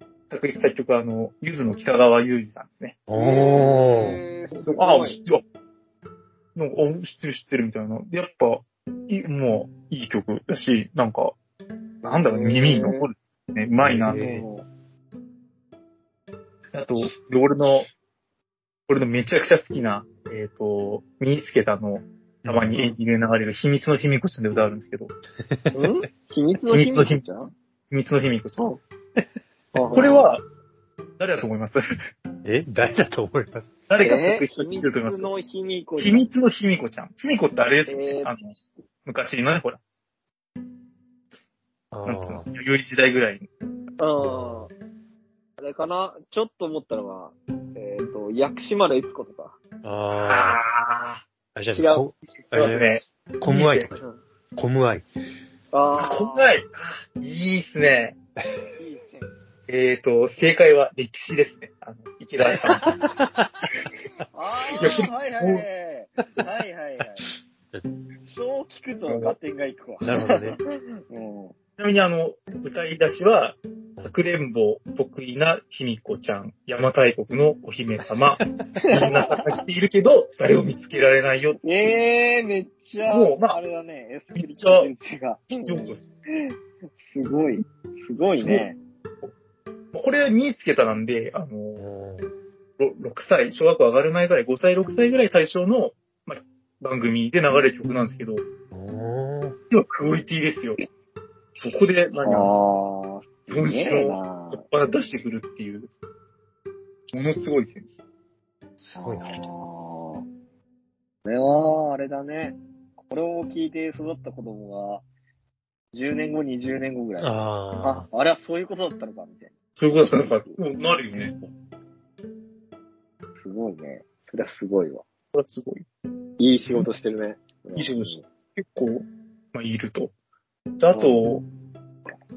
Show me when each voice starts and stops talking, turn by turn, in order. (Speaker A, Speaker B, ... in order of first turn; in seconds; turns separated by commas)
Speaker A: 0.3-3.0, Speaker B: 3.1-4.2, Speaker C: 3.1-5.2, Speaker A: 4.6-5.4, Speaker A: 6.5-11.3, Speaker C: 12.0-13.1, Speaker A: 12.0-14.3, Speaker B: 13.8-14.4, Speaker C: 14.1-14.7, Speaker A: 16.7-17.9, Speaker A: 18.9-25.1, Speaker B: 22.4-22.9, Speaker B: 25.5-25.9, Speaker C: 25.7-27.5, Speaker A: 26.7-27.3, Speaker A: 27.9-28.7, Speaker C: 29.7-30.3, Speaker A: 29.9-30.4, Speaker A: 31.2-31.8, Speaker B: 32.4-33.7, Speaker A: 33.9-35.3, Speaker C: 34.0-36.3, Speaker A: 36.0-38.5, Speaker C: 37.9-38.3, Speaker A: 39.0-39.8, Speaker B: 41.9-42.5, Speaker A: 42.0-43.5, Speaker C: 44.0-44.7, Speaker B: 44.2-44.7, Speaker C: 45.6-49.6, Speaker B: 49.8-50.6, Speaker A: 50.1-51.2, Speaker B: 51.5-54.0, Speaker C: 51.7-52.0, Speaker A: 52.2-53.9, Speaker B: 54.5-55.1, Speaker C: 55.7-56.6, Speaker A: 56.0-58.2, Speaker C: 58.8-59.3, Speaker A: 59.7-62.8, Speaker C: 64.3-67.3, Speaker A: 64.7-65.6, Speaker C: 68.3-71.5, Speaker A: 69.1-69.4, Speaker B: 70.0-70.6, Speaker A: 71.8-78.4, Speaker A: 78.9-81.6, Speaker C: 78.9-79.4, Speaker C: 81.6-85.9, Speaker A: 83.0-83.6, Speaker A: 84.3-84.9, Speaker A: 85.6-86.1, Speaker C: 87.0-88.8, Speaker A: 88.4-88.7, Speaker A: 89.9-91.8, Speaker B: 91.8-92.3, Speaker A: 92.8-98.4, Speaker B: 98.7-99.5, Speaker A: 99.7-100.8, Speaker A: 101.6-102.6, Speaker C: 102.2-104.6, Speaker A: 103.5-105.9, Speaker A: 107.1-108.0, Speaker B: 108.8-109.4, Speaker C: 109.0-110.2, Speaker C: 111.2-115.0, Speaker C: 115.9-117.3, Speaker B: 117.2-118.1, Speaker C: 117.8-120.6, Speaker A: 119.8-121.3, Speaker C: 123.4-125.0, Speaker A: 125.3-125.8, Speaker C: 126.4-128.2, Speaker A: 127.8-130.1, Speaker A: 130.8-131.4, Speaker C: 130.9-131.2